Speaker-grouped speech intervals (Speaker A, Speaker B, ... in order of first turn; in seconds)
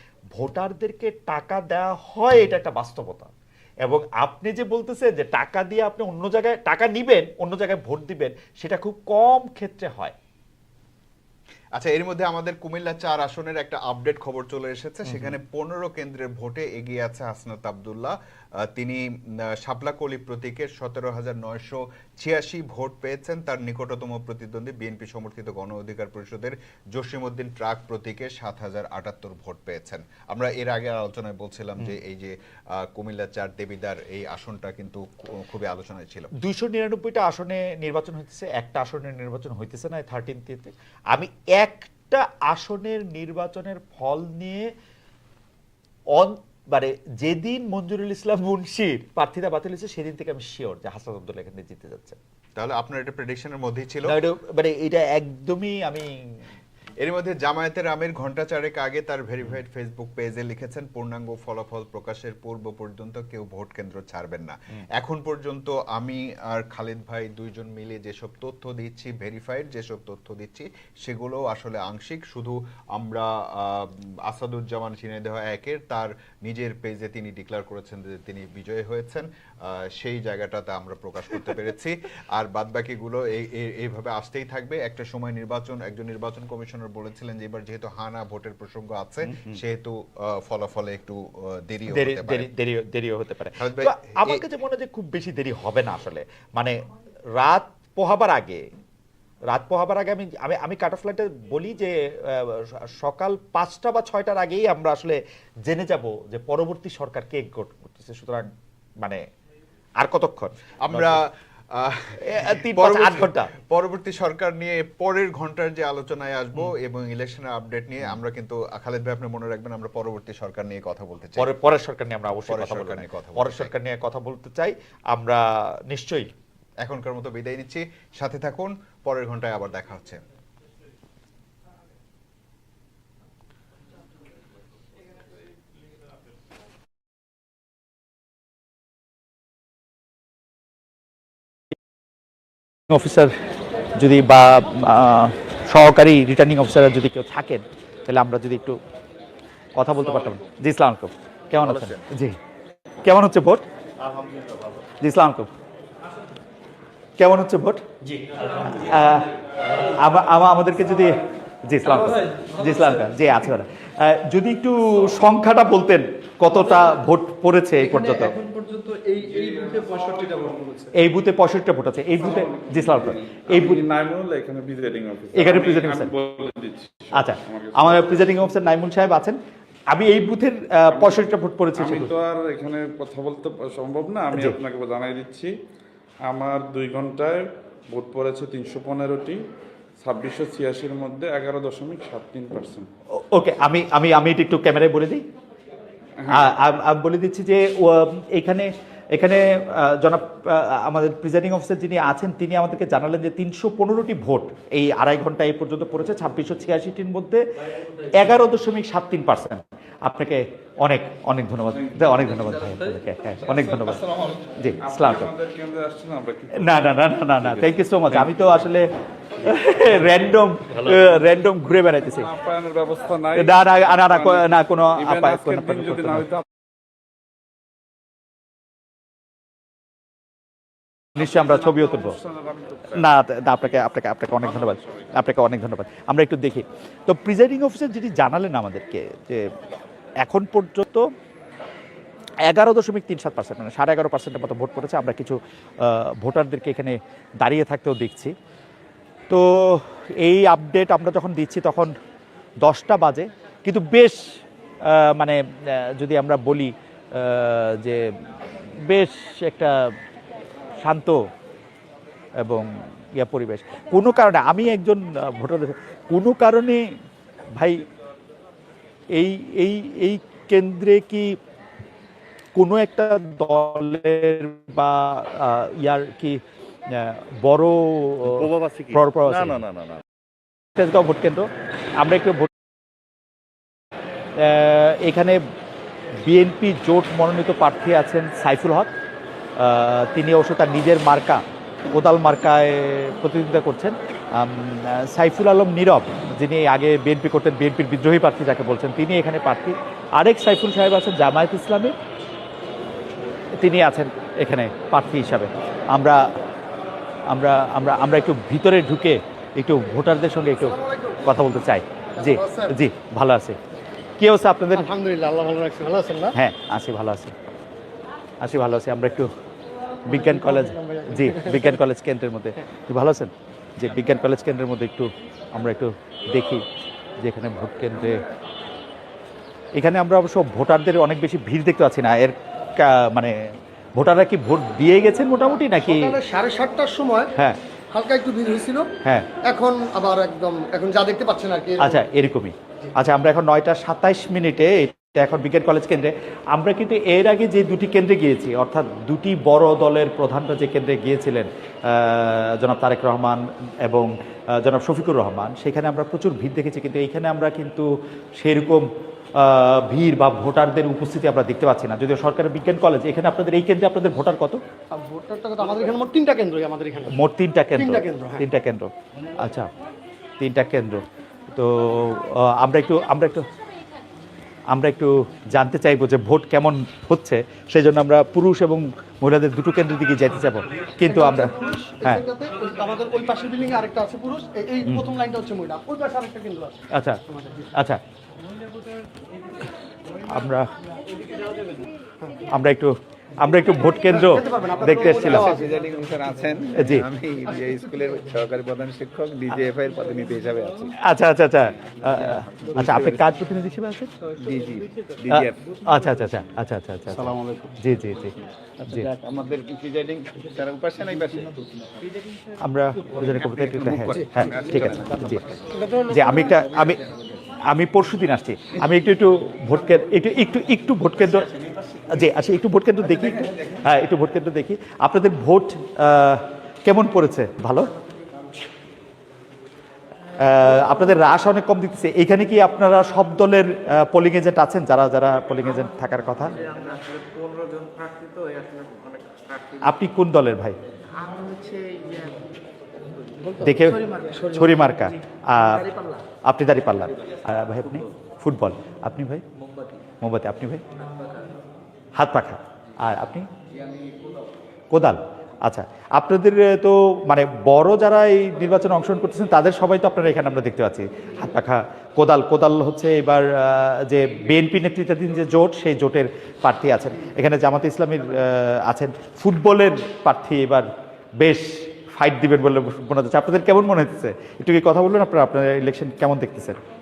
Speaker A: 0.3-3.3, 3.9-10.2, 15.1-15.3, 36.4-44.7, 46.1-52.2, 54.1-56.1, 89.3-89.6, 91.9-96.8, 97.3-98.6, 99.5-108.5, 110.0-111.2, 112.2-113.5, 121.4-126.3, 142.9-143.3, 144.0-148.8, 149.8-152.4, 153.0-153.6, 155.0-155.5, 157.2-157.8, 158.5-159.3, 159.9-168.4, 170.9-173.8, 175.3-176.1, 177.1-179.4, 179.9-182.1, 193.3-195.2, 196.3-207.4, 208.1-214.0, 214.6-215.3, 216.6-218.9, 219.4-222.3, 223.4-226.3, 231.2-232.2, 232.9-239.5, 240.2-241.1, 242.5-248.3, 249.3-251.9, 252.6-254.2, 254.9-258.1, 258.8-259.9, 260.8-261.2, 262.4-266.9, 267.5-267.9, 269.1-271.4, 272.6-276.4, 276.9-279.7, 280.8-282.5, 284.4-285.4, 286.3-288.9, 289.6-301.9, 303.6-306.2, 307.3-313.6, 314.2-314.9, 316.4-317.3, 318.4-319.3, 320.1-326.7, 327.2-328.2, 329.8-333.4, 334.0-336.2, 341.8-364.6, 367.1-369.7, 370.4-373.4, 374.7-382.2, 386.9-387.2, 387.8-388.0, 390.3-390.7, 392.5-395.6, 396.8-397.1, 401.0-404.1, 405.3-408.4, 412.6-415.5, 416.1-417.0, 417.7-421.5, 422.1-427.9, 430.4-436.5, 439.8-440.8, 443.6-445.9, 446.5-449.4, 450.2-450.9, 452.2-453.5, 454.9-470.9, 471.4-476.8
Speaker B: 11.8-36.3, 52.6-54.2, 57.0-92.5, 93.6-94.4, 110.8-121.5, 122.5-123.7, 126.8-130.2
Speaker C: 154.0-154.7, 278.4-279.9, 394.9-400.9, 402.1-403.3, 404.4-405.8, 407.1-407.8, 408.9-412.0, 413.3-415.8, 423.1-423.9
Speaker D: 167.9-170.9, 310.6-311.2, 312.2-312.8, 314.7-316.4, 320.1-321.7, 335.8-337.3, 337.9-338.9, 339.4-341.9, 364.9-367.1, 367.7-368.4, 381.0-386.8, 387.3-387.7, 394.1-395.6, 414.2-414.5, 415.7-416.5, 443.5-444.9
Speaker E: 169.3-170.0, 172.2-178.4, 180.9-185.5, 186.3-189.4, 190.0-192.9, 196.2-196.5, 211.8-212.1, 213.4-218.3, 219.4-221.2, 221.9-226.4, 231.2-233.1, 234.4-235.1
Speaker F: 436.4-440.0, 441.1-443.6, 445.9-446.2, 449.6-449.9, 451.0-451.5, 453.7-454.5